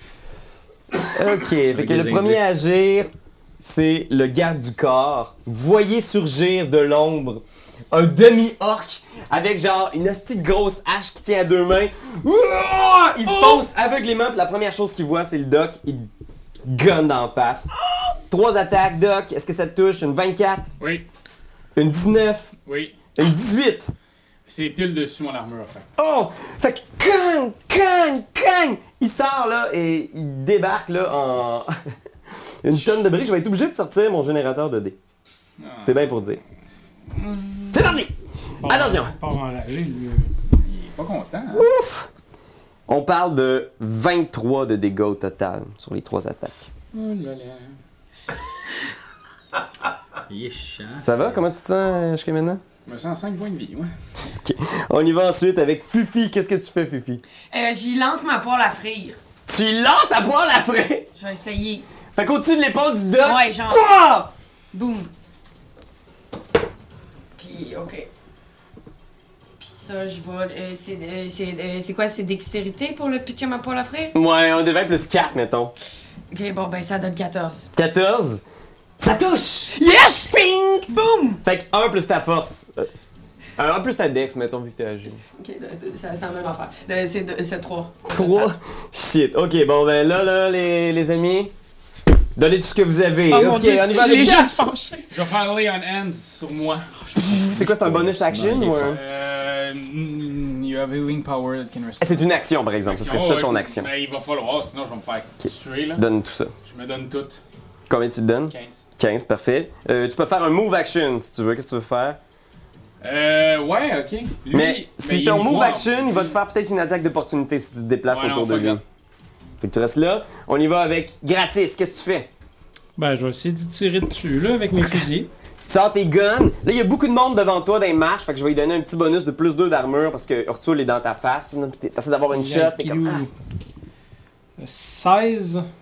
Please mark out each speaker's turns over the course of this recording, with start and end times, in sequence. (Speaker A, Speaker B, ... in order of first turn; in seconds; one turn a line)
Speaker A: 1.1-16.1
Speaker B: 1.7-2.6
Speaker C: 13.2-13.6
Speaker A: 16.6-17.7
Speaker A: 18.3-20.7
Speaker C: 20.8-21.1
Speaker A: 21.8-22.5
Speaker C: 22.6-22.9
Speaker A: 23.1-23.9
Speaker C: 24.4-25.9
Speaker A: 26.0-35.0
Speaker C: 35.6-36.2
Speaker A: 35.8-36.4
Speaker C: 37.1-37.9
Speaker A: 37.7-39.1
Speaker D: 38.6-40.3
Speaker C: 40.5-41.7
Speaker A: 41.5-42.1
Speaker A: 42.9-46.7
Speaker C: 46.9-47.8
Speaker B: 50.3-51.4
Speaker A: 51.0-52.6
Speaker C: 52.9-53.9
Speaker A: 54.4-57.2
Speaker E: 57.5-59.2
Speaker A: 59.5-61.1
Speaker E: 61.1-61.9
Speaker A: 62.1-64.3
Speaker E: 63.2-63.9
Speaker E: 64.7-65.1
Speaker E: 67.3-68.1
Speaker E: 69.6-74.1
Speaker A: 74.1-75.7
Speaker E: 76.3-77.7
Speaker A: 77.7-78.4
Speaker A: 79.0-79.8
Speaker E: 79.7-81.4
Speaker A: 81.4-82.9
Speaker A: 83.6-85.2
Speaker E: 85.3-88.5
Speaker A: 88.0-91.5
Speaker A: 92.3-94.5
Speaker E: 93.3-95.1
Speaker C: 95.1-97.1
Speaker B: 97.1-99.0
Speaker A: 97.1-99.0
Speaker C: 98.6-102.3
Speaker A: 102.0-103.9
Speaker C: 102.8-106.0
Speaker A: 105.4-106.5
Speaker C: 106.6-107.4
Speaker A: 107.9-112.2
Speaker C: 108.5-108.8
Speaker C: 113.0-116.3
Speaker A: 114.5-118.8
Speaker C: 118.1-118.8
Speaker A: 119.6-122.3
Speaker D: 123.0-125.3
Speaker A: 125.7-133.2
Speaker D: 132.3-133.3
Speaker D: 134.6-135.7